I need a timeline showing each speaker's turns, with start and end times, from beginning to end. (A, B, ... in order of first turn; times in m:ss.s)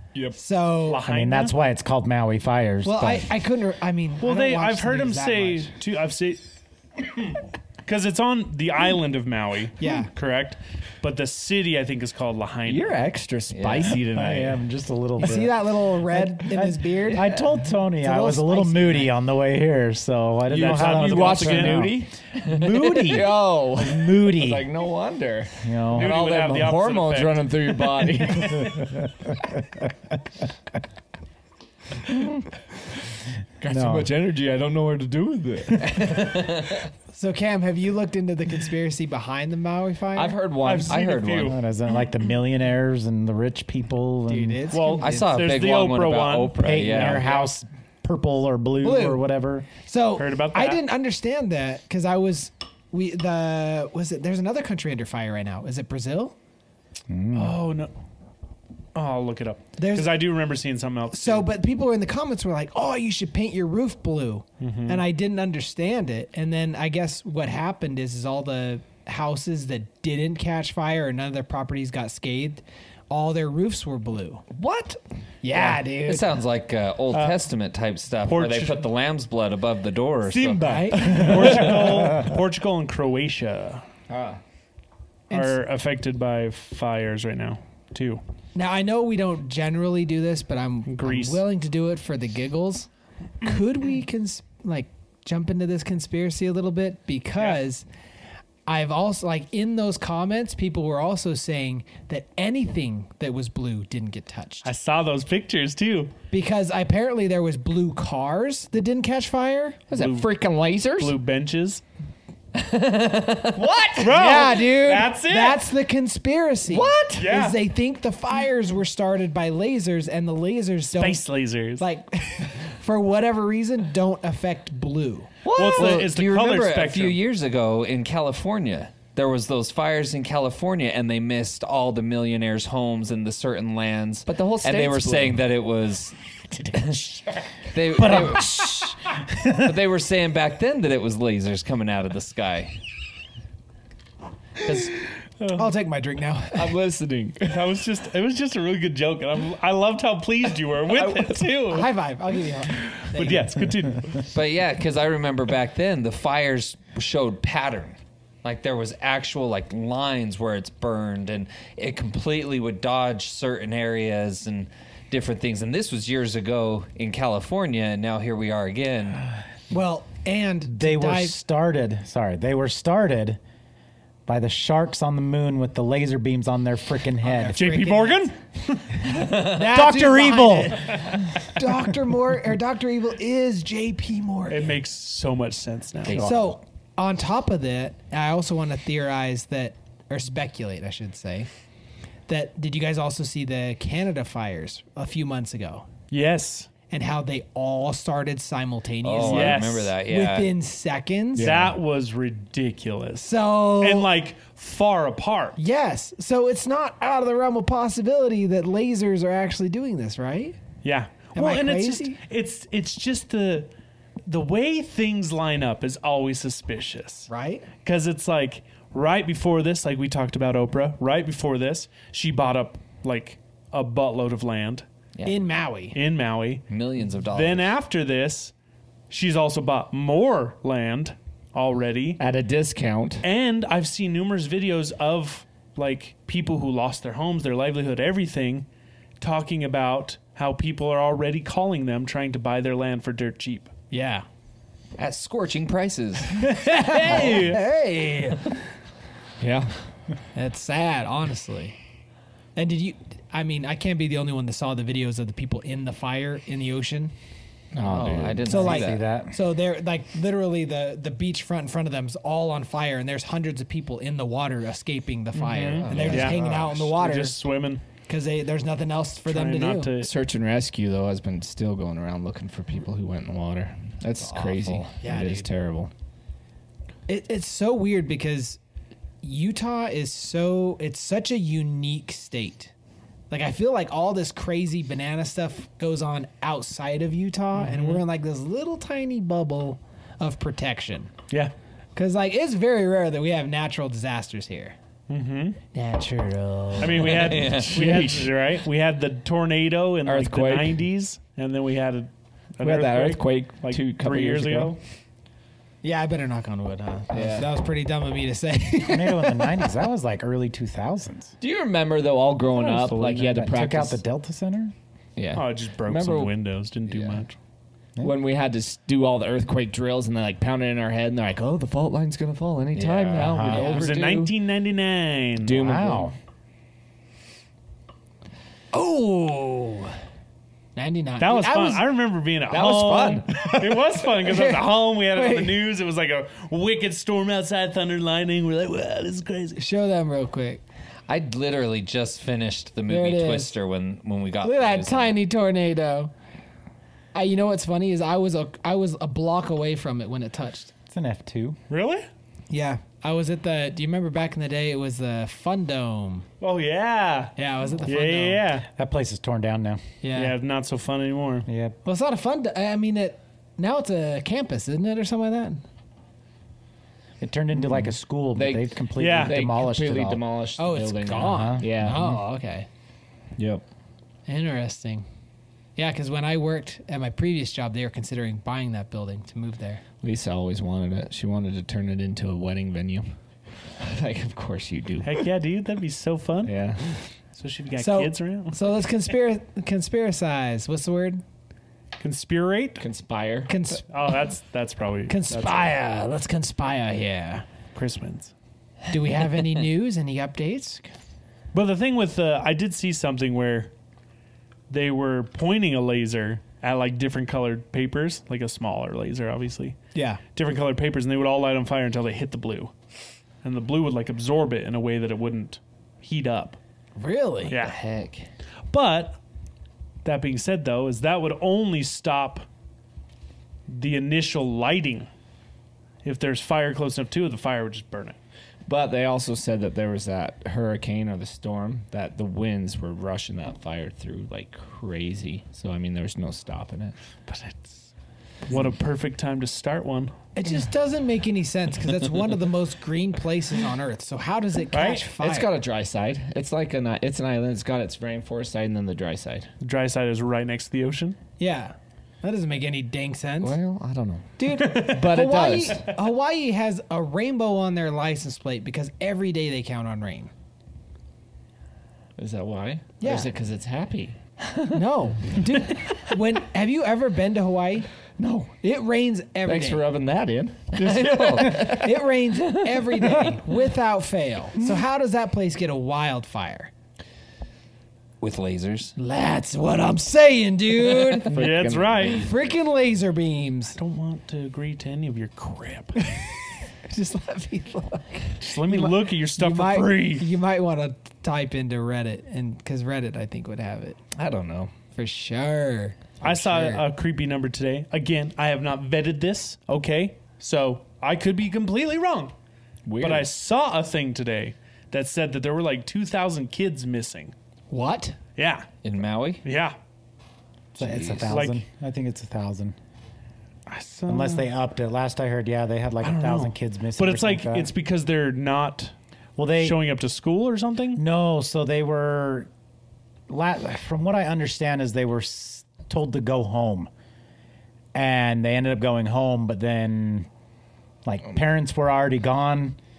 0:00.4-0:01.0 A
0:00.8-0:01.5 B
0:01.0-0:03.3 C
0:02.8-0:05.7 A
0:04.2-0:06.4 B
0:07.8-0:13.0 B
0:09.8-0:10.1 A
0:12.6-0:14.6 D
0:13.5-0:14.0 E
0:14.1-0:24.6 C
0:15.2-0:17.3 A
0:18.0-0:19.1 A
0:20.5-0:21.9 B
0:20.5-0:28.8 D
0:25.6-0:26.2 C
0:25.9-0:28.7 B
0:28.6-0:29.3 C
0:33.6-0:36.3 D
0:33.6-0:34.1 C
0:36.0-0:36.9 E
0:37.1-0:40.4 A
0:40.1-0:41.0 D
0:40.6-0:41.6 B
0:40.9-0:41.6 E
0:41.4-0:44.6 C
0:44.3-0:45.3 A
0:44.7-0:47.4 B
0:45.0-0:47.4 E
0:46.6-0:49.7 C
0:48.8-0:49.2 A
0:49.8-0:56.4 A
0:50.2-0:50.8 B
0:57.1-0:57.6 C
0:57.3-0:57.9 B
0:58.9-1:01.5 B
0:59.8-1:00.2 A
1:01.1-1:14.4 A
1:04.6-1:05.0 B
1:14.5-1:15.0 D
1:15.4-1:16.4 A
1:15.5-1:21.6 E
1:17.1-1:17.5 B
1:18.2-1:18.9 B
1:20.2-1:23.8 B
1:20.6-1:21.3 A
1:21.1-1:22.2 C
1:24.1-1:24.4 D
1:25.3-1:25.6 A
1:25.3-1:28.2 B
1:28.5-1:32.9 A
1:30.9-1:31.4 B
1:33.4-1:37.8 A
1:38.6-1:44.7 A
1:44.6-1:46.1 B
1:46.3-1:49.8 A
1:49.9-1:51.2 D
1:49.9-1:50.3 B
1:51.0-1:51.8 B
1:52.5-1:53.7 E
1:53.5-1:54.4 D
1:54.0-1:55.6 B
1:54.0-2:01.2 A
1:56.7-1:57.3 D
1:57.2-1:57.6 B
2:01.0-2:01.8 B
2:01.8-2:05.3 A
2:05.4-2:06.6 D
2:05.4-2:18.8 E
2:05.6-2:07.2 B
2:14.3-2:15.4 D
2:17.9-2:19.8 C
2:19.6-2:22.7 E
2:24.6-2:24.9 E
2:25.4-2:25.7 B
2:25.5-2:26.8 A
2:26.5-2:27.8 D
2:27.5-2:31.9 B
2:30.9-2:31.5 D
2:31.7-2:33.6 A
2:32.7-2:34.3 B
2:34.3-2:49.2 E
2:49.7-2:51.4 A
2:50.7-2:53.4 C
2:54.3-2:57.6 C
2:57.2-2:58.3 A
2:57.5-2:59.3 B
2:59.1-3:04.8 A
2:59.1-3:01.0 C
3:04.5-3:06.3 B
3:06.0-3:06.5 C
3:06.2-3:11.5 A
3:12.3-3:15.9 A
3:16.1-3:16.7 B
3:16.9-3:21.5 A
3:19.0-3:20.5 E
3:19.2-3:19.9 B
3:21.4-3:21.7 D
3:21.4-3:25.6 B
3:23.2-3:24.1 A
3:25.6-3:30.6 A
3:30.8-3:33.7 B
3:31.3-3:32.2 A
3:34.3-3:37.3 B
3:37.3-3:37.7 A
3:37.8-3:44.8 B
3:45.2-3:46.0 A
3:45.9-3:48.5 B
3:46.7-3:47.7 E
3:49.1-3:52.2 B
3:52.2-3:53.2 D
3:53.2-3:58.6 B
3:59.2-4:03.7 B
4:03.9-4:04.2 A
4:05.0-4:06.4 E
4:06.4-4:08.5 A
4:06.8-4:07.7 B
4:09.4-4:09.7 D
4:10.3-4:11.8 A
4:12.6-4:17.1 A
4:17.7-4:18.6 D
4:17.8-4:19.0 E
4:18.4-4:27.4 A
4:18.6-4:19.3 C
4:25.3-4:27.8 B
4:25.8-4:26.7 D
4:25.8-4:26.2 E
4:28.1-4:29.9 A
4:29.3-4:30.1 B
4:30.0-4:35.9 D
4:34.5-4:34.8 E
4:35.0-4:35.5 A
4:37.1-4:38.6 A
4:39.2-4:42.7 A
4:43.3-4:51.1 A
4:47.5-4:48.0 B
4:51.9-4:54.7 A
4:55.1-4:55.6 B
4:55.7-4:58.2 A
4:56.8-5:04.8 B
4:57.2-4:58.0 E
4:57.7-4:58.3 D
5:00.0-5:00.8 D
5:02.6-5:04.8 D
5:05.8-5:09.7 A
5:07.1-5:07.5 D
5:08.9-5:11.3 C
5:11.4-5:14.0 D
5:12.6-5:13.2 B
5:12.6-5:14.7 C
5:15.2-5:16.3 D
5:15.3-5:17.4 B
5:16.9-5:17.2 D
5:18.0-5:24.3 D
5:22.8-5:23.2 E
5:23.1-5:25.7 B
5:23.1-5:23.9 C
5:25.4-5:26.1 D
5:25.6-5:26.1 C
5:28.7-5:29.9 A
5:30.8-5:31.9 A
5:31.2-5:39.6 B
5:32.5-5:33.6 D
5:34.2-5:35.6 A
5:39.6-5:40.6 A
5:41.1-5:45.2 E
5:42.9-5:43.5 A
5:44.4-5:46.1 A
5:47.1-5:50.7 A
5:50.9-5:51.6 C
5:51.7-5:52.1 B
5:52.5-5:56.3 A
5:56.4-5:58.7 B
5:57.4-5:58.4 A
5:58.7-5:59.8 C
6:00.0-6:00.4 A
6:00.1-6:01.5 B
6:01.5-6:01.8 C
6:01.8-6:05.6 A
6:07.2-6:10.2 C
6:08.3-6:12.2 D
6:09.0-6:09.4 B
6:10.6-6:12.7 A
6:11.1-6:11.7 C
6:13.4-6:13.6 D
6:14.3-6:15.0 A
6:15.8-6:19.8 A
6:20.0-6:23.0 D
6:23.8-6:25.2 D
6:25.0-6:26.5 B
6:26.4-6:27.0 D
6:27.3-6:28.6 B
6:27.8-6:31.2 A
6:32.0-6:32.8 B
6:32.8-6:33.5 D
6:33.5-6:33.8 A
6:33.9-6:35.7 B
6:35.1-6:37.4 A
6:37.7-6:38.3 B
6:38.9-6:40.9 A
6:41.5-6:43.7 B
6:44.7-6:49.8 B
6:49.9-6:50.2 A
6:50.3-6:52.7 B
6:53.4-6:56.6 B
6:57.0-6:57.5 A
6:57.5-6:57.8 B
6:57.6-6:58.3 E
6:58.7-6:59.2 B
7:00.0-7:02.4 B
7:03.7-7:05.1 B
7:06.0-7:08.2 B
7:08.7-7:17.0 D
7:17.3-7:17.9 B
7:18.5-7:20.2 B
7:20.4-7:25.5 A
7:24.7-7:25.0 B
7:25.2-7:29.5 D
7:29.6-7:31.2 B
7:31.4-7:33.6 A
7:33.4-7:35.9 D
7:34.4-7:40.3 A
7:34.6-7:35.1 B
7:42.2-7:44.2 D
7:43.0-7:43.3 A
7:44.7-7:47.9 A
7:48.2-7:48.5 D
7:48.6-7:49.8 A
7:49.4-7:51.8 D
7:50.7-7:52.0 E
7:50.8-7:56.7 A
7:58.2-7:58.9 E
7:59.0-8:01.3 A
8:01.2-8:02.4 D
8:01.3-8:02.3 B
8:02.1-8:03.8 A
8:03.8-8:06.1 B
8:06.8-8:14.0 A
8:08.4-8:10.2 B
8:14.2-8:14.7 D
8:14.9-8:16.8 A
8:16.2-8:22.3 B
8:22.8-8:23.3 D
8:23.0-8:27.3 B
8:27.7-8:28.2 A
8:28.4-8:28.7 B
8:28.8-8:29.4 E
8:29.4-8:29.8 B
8:30.8-8:32.8 C
8:30.8-8:31.3 D
8:30.8-8:31.2 E
8:31.3-8:31.6 B
8:33.7-8:34.5 B
8:34.1-8:37.7 C
8:36.0-8:38.9 B
8:39.4-8:39.8 C
8:39.6-8:41.0 B
8:40.9-8:42.5 C
8:43.3-8:46.9 C
8:47.9-8:50.3 C
8:51.0-8:52.8 C